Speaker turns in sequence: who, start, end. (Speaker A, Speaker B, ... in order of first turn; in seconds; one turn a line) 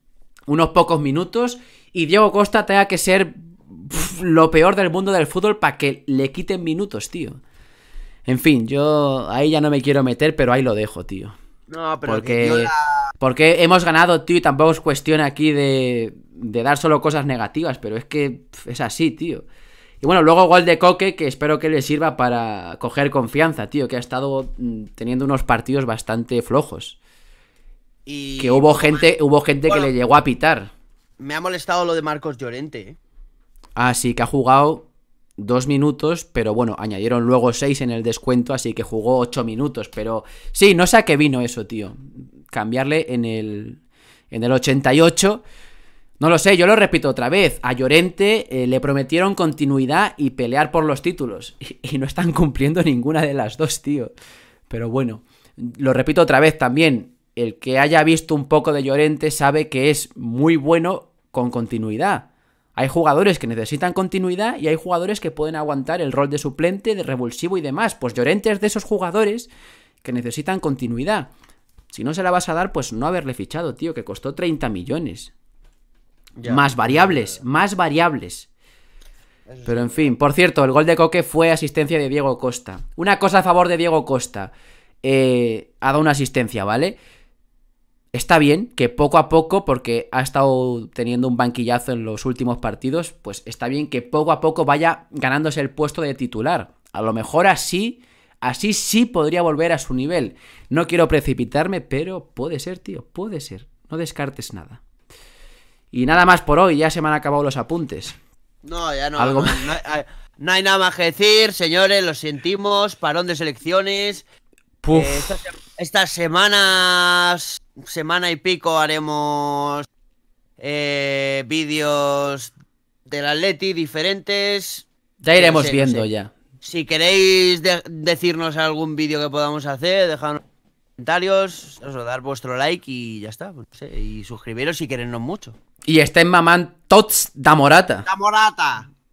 Speaker A: 0.5-7.4
Speaker A: 8.3-11.3
Speaker B: 11.7-13.1
Speaker A: 12.1-19.5
Speaker A: 20.0-27.0
Speaker B: 28.1-29.1
Speaker A: 28.4-30.7
Speaker B: 29.7-29.9
Speaker B: 31.2-33.0
Speaker A: 33.8-42.0
Speaker A: 42.5-43.8
Speaker A: 44.3-45.4
Speaker A: 46.2-54.1
Speaker A: 54.7-69.5
Speaker A: 70.0-71.3
Speaker A: 71.9-75.3
Speaker B: 76.4-77.4
Speaker A: 76.5-78.5
Speaker B: 79.5-80.2
Speaker A: 79.7-84.5
Speaker A: 85.0-87.0
Speaker A: 88.1-104.8
Speaker A: 105.9-108.2
Speaker B: 108.6-114.2
Speaker A: 109.2-109.6
Speaker A: 114.8-115.4
Speaker B: 114.9-119.9
Speaker B: 120.6-122.5
Speaker B: 123.1-126.1
Speaker A: 125.2-126.3
Speaker B: 126.6-130.4
Speaker B: 131.0-135.6
Speaker A: 135.9-138.1
Speaker B: 138.1-138.9